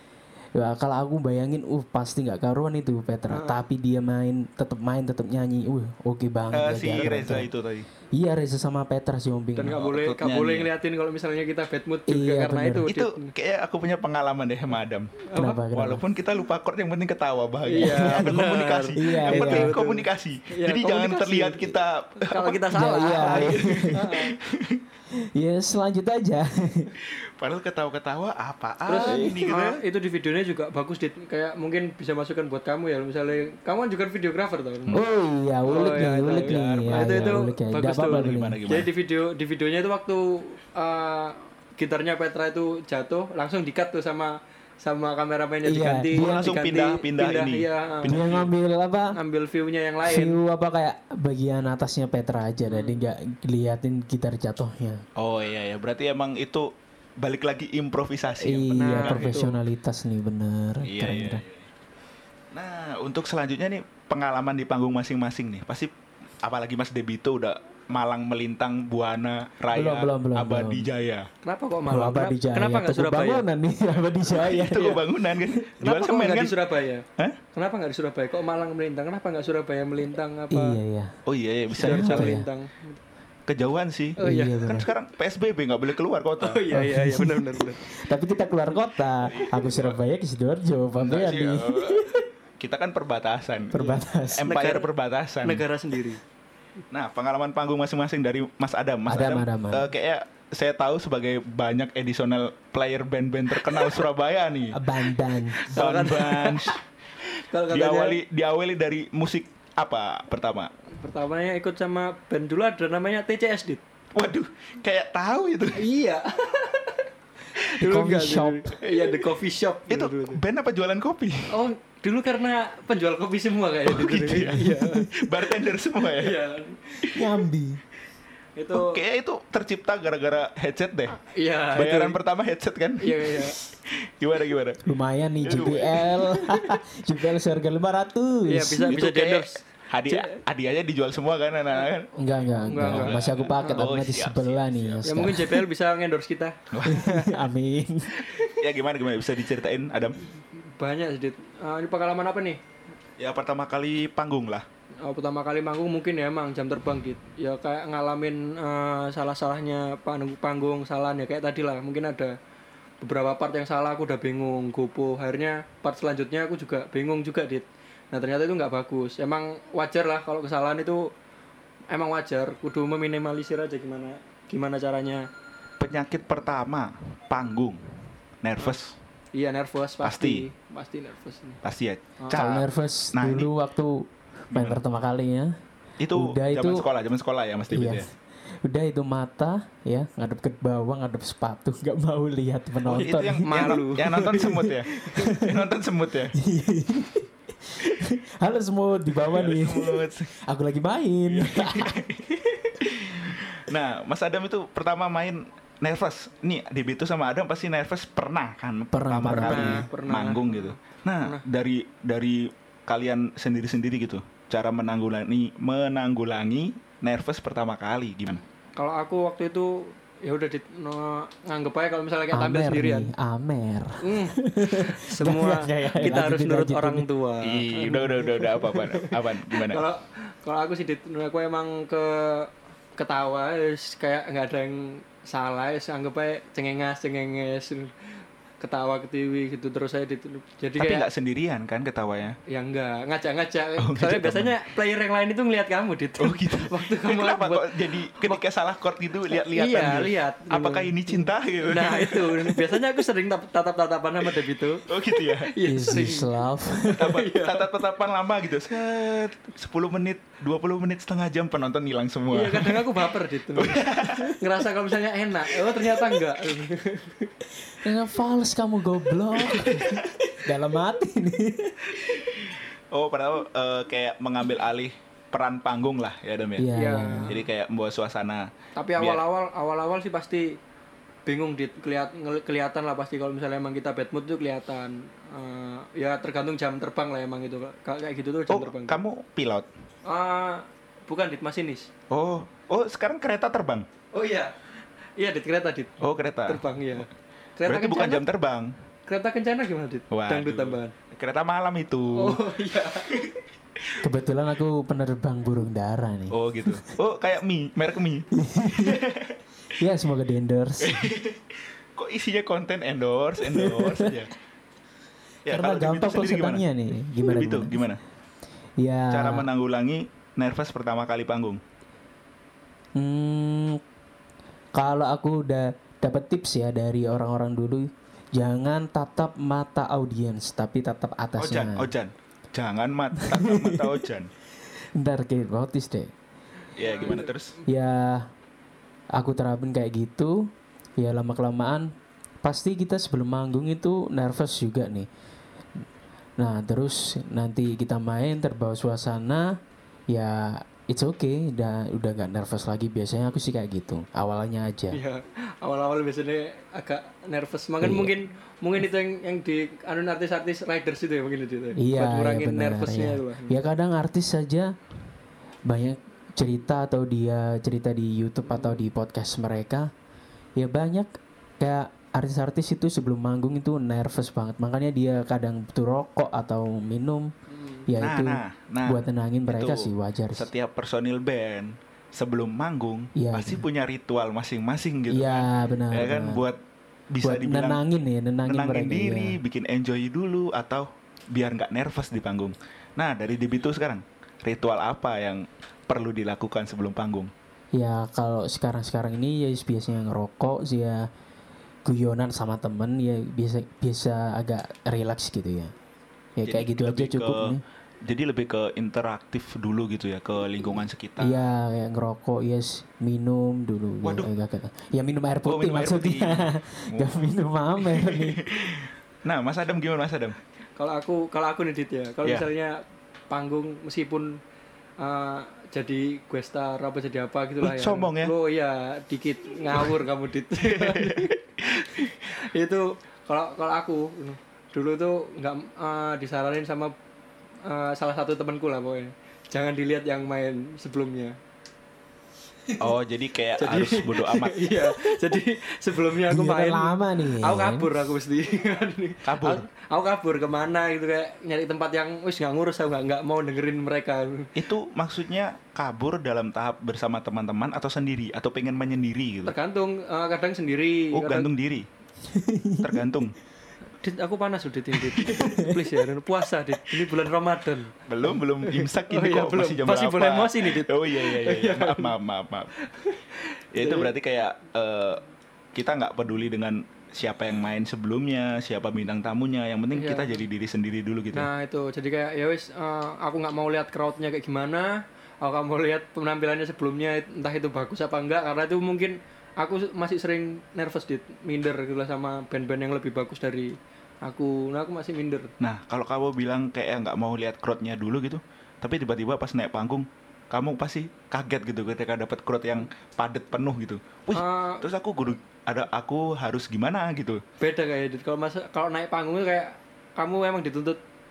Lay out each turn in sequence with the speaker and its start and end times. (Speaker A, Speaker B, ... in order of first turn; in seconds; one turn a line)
Speaker A: 0.5-7.5
Speaker B: 3.3-3.6
Speaker C: 6.5-7.9
Speaker A: 8.1-9.8
Speaker B: 9.6-13.3
Speaker C: 9.7-10.7
Speaker A: 12.1-12.9
Speaker C: 12.9-24.8
Speaker B: 15.3-15.6
Speaker A: 15.3-16.0
Speaker B: 17.6-24.4
Speaker A: 17.8-18.4
Speaker A: 18.9-19.7
Speaker A: 22.7-24.1
Speaker A: 25.1-26.9
Speaker C: 27.0-29.8
Speaker B: 28.9-35.0
Speaker A: 29.0-29.5
Speaker A: 34.9-38.6
Speaker B: 35.6-48.2
Speaker C: 36.3-37.4
Speaker C: 38.0-38.9
Speaker A: 45.6-46.5
Speaker C: 46.1-48.5
Speaker A: 48.1-49.1
Speaker B: 49.1-50.4
Speaker A: 50.0-55.0
Speaker B: 52.6-53.0
Speaker C: 55.1-59.3
Speaker A: 58.4-61.4
Speaker B: 58.7-59.6
Speaker C: 60.8-61.7
Speaker C: 62.5-65.9
Speaker C: 66.4-71.3
Speaker A: 69.7-70.9
Speaker B: 71.4-73.5
Speaker A: 71.9-75.5
Speaker C: 74.2-76.5
Speaker B: 75.8-80.8
Speaker A: 80.5-81.2
Speaker C: 81.2-82.4
Speaker B: 81.7-83.0
Speaker A: 81.7-82.5
Speaker C: 83.5-86.7
Speaker B: 84.2-84.7
Speaker A: 84.2-84.9
Speaker B: 86.4-87.8
Speaker A: 86.7-92.2
Speaker C: 89.2-90.0
Speaker C: 91.0-95.7
Speaker A: 93.7-94.5
Speaker B: 93.7-94.9
Speaker B: 95.4-96.2
Speaker C: 96.9-104.8
Speaker A: 99.1-99.9
Speaker A: 104.7-105.7
Speaker B: 105.6-106.8
Speaker C: 105.6-106.8
Speaker B: 107.4-108.2
Speaker C: 107.7-110.7
Speaker B: 110.9-113.8
Speaker C: 114.1-115.8
Speaker B: 115.7-117.0
Speaker B: 117.5-120.4
Speaker A: 117.8-118.8
Speaker C: 119.9-121.6
Speaker B: 121.5-125.1
Speaker C: 123.8-126.4
Speaker B: 125.6-127.1
Speaker A: 127.1-127.8
Speaker B: 128.6-129.0
Speaker C: 128.7-131.2
Speaker B: 131.2-132.2
Speaker C: 131.7-134.8
Speaker B: 133.0-133.6
Speaker A: 134.8-138.9
Speaker C: 135.4-136.6
Speaker B: 138.4-140.4
Speaker C: 138.9-142.1
Speaker A: 142.2-145.6
Speaker B: 142.6-143.8
Speaker C: 142.7-145.1
Speaker B: 145.0-147.3
Speaker C: 146.7-147.3
Speaker A: 146.8-148.2
Speaker B: 148.1-148.5
Speaker C: 148.4-150.2
Speaker B: 150.6-152.6
Speaker C: 153.2-154.6
Speaker B: 155.0-162.3
Speaker B: 163.0-171.1
Speaker B: 171.9-175.3
Speaker C: 175.8-177.8
Speaker C: 178.4-178.9
Speaker B: 179.3-181.6
Speaker C: 180.0-180.4
Speaker C: 181.6-183.5
Speaker A: 182.3-185.5
Speaker C: 184.5-184.8
Speaker C: 186.0-188.1
Speaker A: 186.1-186.9
Speaker A: 187.7-188.1
Speaker A: 188.6-195.7
Speaker C: 192.8-196.3
Speaker B: 192.9-195.3
Speaker A: 196.3-202.1
Speaker C: 199.2-200.3
Speaker C: 201.3-218.4
Speaker A: 208.9-209.8
Speaker B: 209.4-211.4
Speaker B: 218.8-223.1
Speaker A: 222.3-227.1
Speaker B: 224.0-237.9
Speaker C: 227.4-229.8
Speaker B: 238.6-241.1
Speaker C: 240.8-242.4
Speaker B: 242.5-248.4
Speaker C: 243.8-244.6
Speaker C: 246.2-252.8
Speaker B: 249.3-256.3
Speaker C: 254.8-255.5
Speaker A: 255.6-257.1
Speaker B: 256.8-257.7
Speaker C: 256.9-264.4
Speaker B: 262.3-267.3
Speaker A: 267.7-271.9
Speaker C: 269.5-270.0
Speaker B: 269.6-269.9
Speaker C: 272.1-276.7
Speaker A: 276.6-277.3
Speaker B: 276.7-277.4
Speaker C: 277.3-279.2
Speaker B: 278.8-280.6
Speaker B: 281.2-289.0
Speaker C: 288.5-289.7
Speaker B: 290.0-291.9
Speaker C: 292.1-293.9
Speaker B: 294.1-294.5
Speaker B: 295.2-298.2
Speaker C: 296.0-296.6
Speaker C: 297.6-298.7
Speaker B: 299.1-300.9
Speaker C: 300.1-302.4
Speaker B: 302.1-303.2
Speaker A: 304.0-306.9
Speaker C: 306.3-309.4
Speaker A: 308.3-309.0
Speaker A: 309.8-311.1
Speaker C: 310.8-314.3
Speaker A: 313.4-314.2
Speaker C: 315.4-316.6
Speaker A: 315.5-317.8
Speaker C: 317.2-318.0
Speaker A: 318.8-319.5
Speaker C: 319.1-321.6
Speaker A: 322.9-323.8
Speaker A: 324.8-331.9
Speaker C: 331.4-334.3
Speaker A: 333.2-334.0
Speaker A: 335.0-336.1
Speaker C: 336.8-337.5
Speaker B: 336.8-337.3
Speaker A: 337.7-338.3
Speaker A: 339.1-341.9
Speaker A: 342.4-345.1
Speaker A: 346.4-349.5
Speaker A: 350.1-355.0
Speaker B: 354.9-363.6
Speaker A: 357.8-358.1
Speaker A: 361.8-364.7
Speaker A: 365.7-369.9
Speaker B: 368.5-368.8
Speaker A: 370.6-377.3
Speaker B: 377.5-377.9
Speaker A: 377.9-380.5
Speaker C: 378.0-386.6
Speaker A: 383.1-383.6
Speaker A: 385.1-386.4
Speaker C: 387.1-387.8
Speaker A: 387.2-389.4
Speaker C: 388.4-397.3
Speaker A: 397.7-401.1
Speaker A: 401.8-405.7
Speaker A: 406.4-407.6
Speaker C: 406.4-411.4
Speaker A: 411.2-418.5
Speaker C: 414.0-414.3
Speaker C: 415.4-420.4
Speaker B: 420.8-424.4
Speaker B: 425.0-436.9
Speaker C: 427.6-428.3
Speaker C: 430.6-432.1
Speaker B: 437.6-441.4
Speaker C: 442.8-444.9
Speaker B: 443.6-454.5
Speaker A: 446.3-447.9
Speaker C: 449.2-449.6
Speaker C: 454.6-459.5
Speaker B: 459.4-461.5
Speaker C: 461.1-461.8
Speaker A: 462.2-463.1
Speaker C: 462.8-463.4
Speaker B: 464.0-472.1
Speaker A: 465.2-465.9
Speaker C: 468.1-472.7
Speaker B: 472.8-474.1
Speaker C: 473.7-475.2
Speaker C: 475.7-481.5
Speaker B: 479.9-480.4
Speaker B: 481.3-495.5
Speaker C: 495.6-507.4
Speaker B: 504.3-504.9
Speaker B: 507.6-511.0